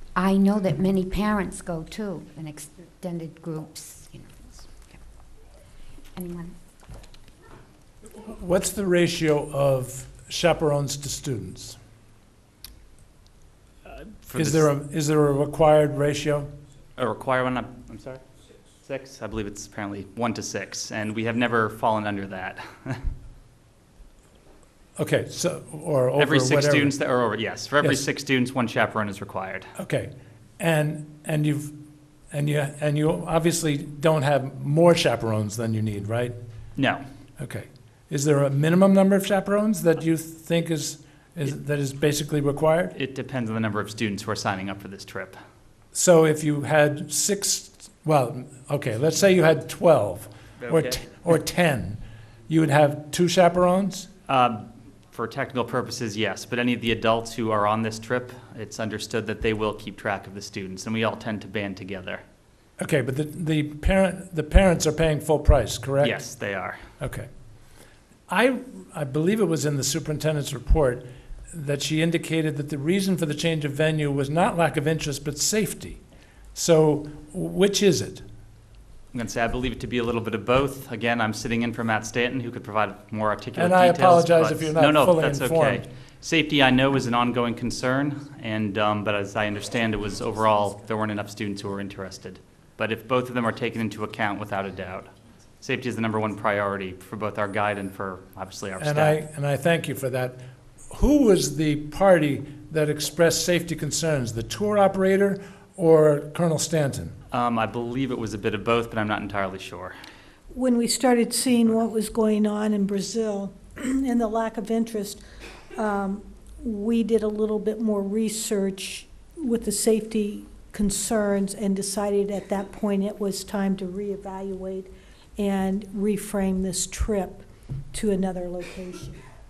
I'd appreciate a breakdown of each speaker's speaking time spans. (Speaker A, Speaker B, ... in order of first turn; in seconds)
Speaker A: 0.1-5.0, 6.2-6.5
Speaker B: 8.2-11.8, 14.3-16.5, 25.0-26.9, 29.8-31.7, 32.3-36.4, 37.4-42.9, 45.9-54.1, 62.8-66.2, 67.0-67.3, 68.3-76.0, 76.5-78.2, 83.5-85.8, 98.8-107.2
Speaker C: 13.9-14.7, 17.0-18.2, 18.8-23.0, 26.2-29.7, 36.8-37.0, 43.0-45.4, 50.6-51.0, 54.3-62.2, 66.0-66.8, 79.1-99.2, 107.3-110.0
Speaker D: 110.5-115.2, 115.8-129.2